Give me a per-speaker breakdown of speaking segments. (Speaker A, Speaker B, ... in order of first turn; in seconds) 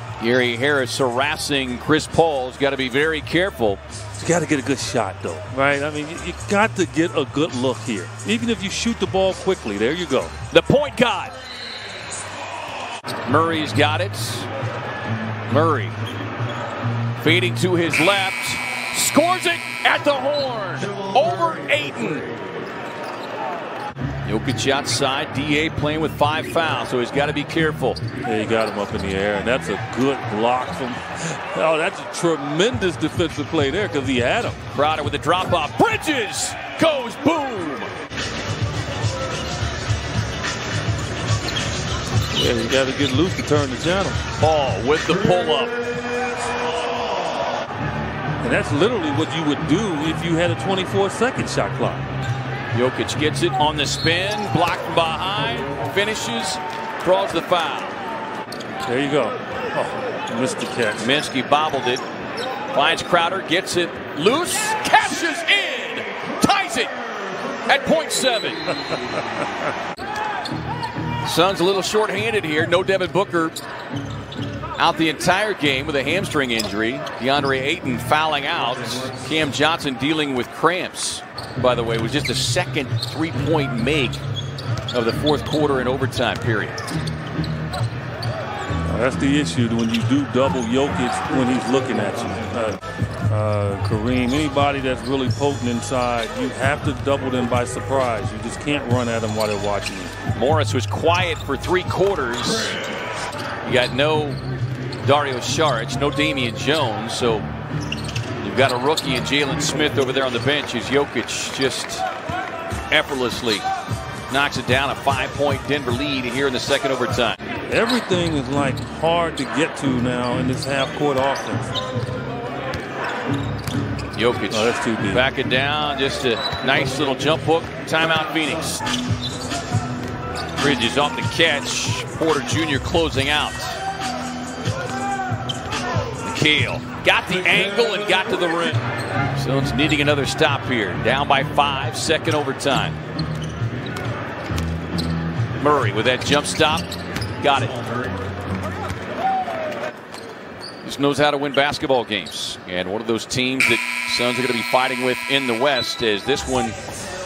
Speaker A: 0.2-3.8, 10.5-11.3, 13.2-14.5, 15.5-15.9, 17.2-22.2, 24.2-28.0, 34.7-37.9, 44.4-45.8, 52.7-58.0, 61.0-62.0, 62.7-66.9, 67.7-68.7, 71.2-73.5, 74.8-84.2, 84.9-86.8, 100.3-102.8, 103.6-104.4, 105.0-107.5, 108.4-112.0, 112.9-113.6, 114.3-117.4, 124.1-128.8, 130.6-133.8, 136.2-142.9, 145.6-146.9, 147.4-147.8, 150.8-156.8
Speaker B: 4.2-10.3, 28.2-34.6, 42.3-44.2, 48.4-52.0, 58.9-61.1, 88.8-100.1, 117.7-121.7, 124.5-125.2